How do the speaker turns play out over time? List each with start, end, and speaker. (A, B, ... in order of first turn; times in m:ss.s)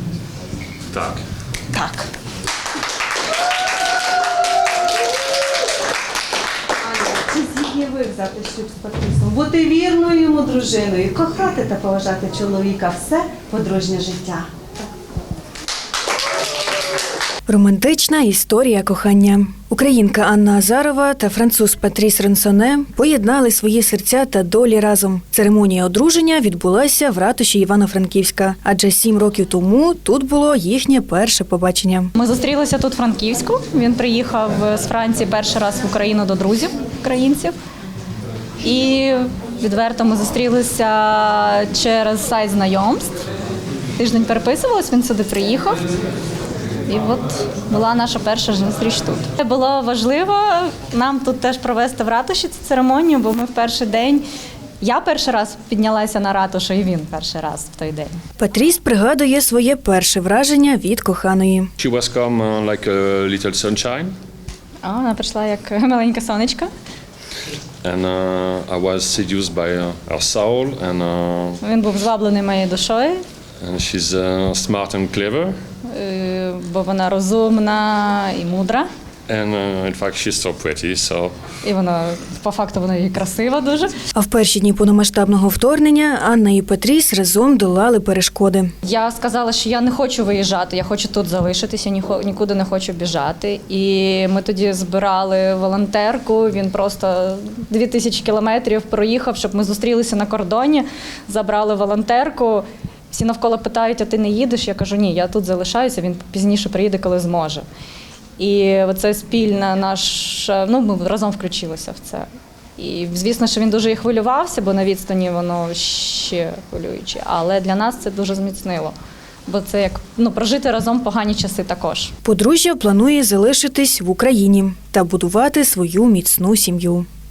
0:00.9-0:01.2 A
0:01.7-0:02.1 B
0:07.0-0:14.5 B
0:17.5-0:32.1 C
0:32.2-0:37.5 D
0:38.6-0:43.1 D
0:44.0-0:45.8 D
0:46.9-0:54.2 D
0:54.8-0:58.2 D
0:58.4-1:01.7 C
1:01.8-1:04.2 A
1:04.8-1:06.7 D
1:07.8-1:11.6 A
1:11.6-1:13.2 D
1:13.6-1:15.6 A
1:15.8-1:18.8 D
1:19.3-1:21.3 A
1:21.6-1:23.9 D
1:24.1-1:28.7 C
1:28.8-1:47.6 D
1:48.4-1:52.2 D
1:52.8-1:58.9 D
1:59.5-2:02.1 D
2:02.2-2:07.1 C